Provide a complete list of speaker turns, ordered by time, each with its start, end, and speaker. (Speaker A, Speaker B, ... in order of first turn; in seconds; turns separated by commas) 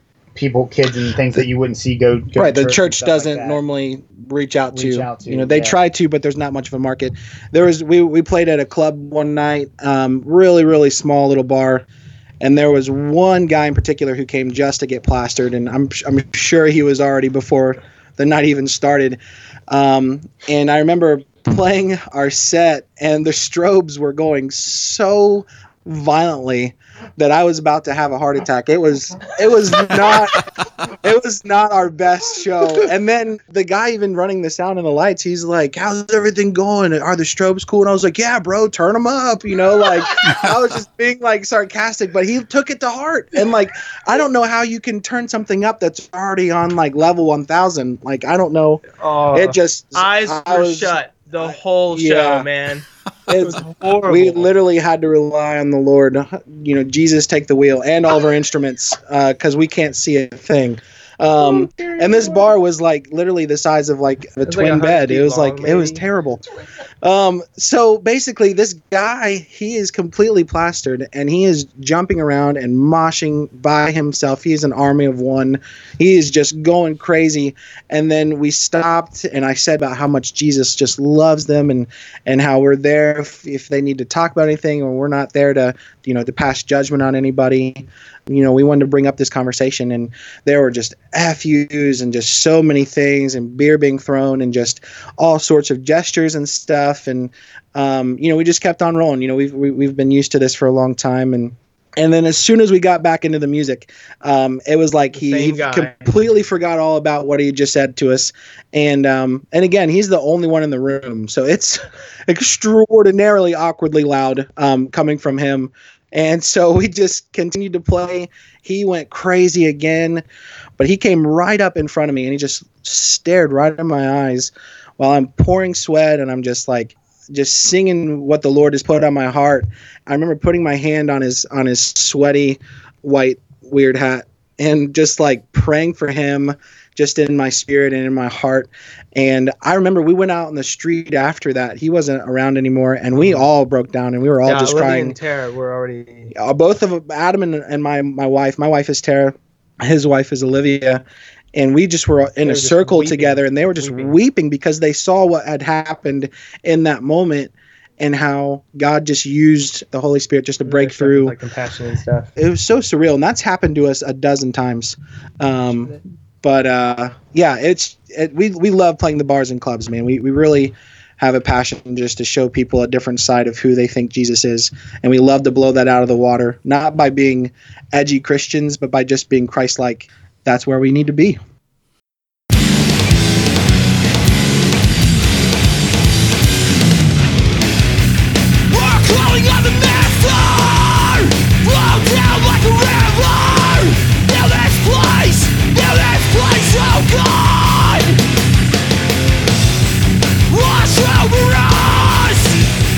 Speaker A: 0.3-3.6, Speaker B: 2.3-11.9, Speaker A: 4.7-5.8, Speaker B: 12.4-52.5, Speaker C: 49.0-54.5, Speaker B: 53.3-66.4, Speaker C: 61.5-62.4, Speaker C: 64.5-66.0, Speaker B: 67.0-120.2, Speaker C: 105.1-105.9, Speaker B: 120.8-145.2, Speaker C: 144.4-146.3, Speaker B: 146.3-151.0, Speaker B: 151.5-161.4, Speaker C: 152.4-154.1, Speaker C: 160.7-162.3, Speaker B: 162.4-181.4, Speaker D: 188.7-198.2, Speaker D: 200.5-202.6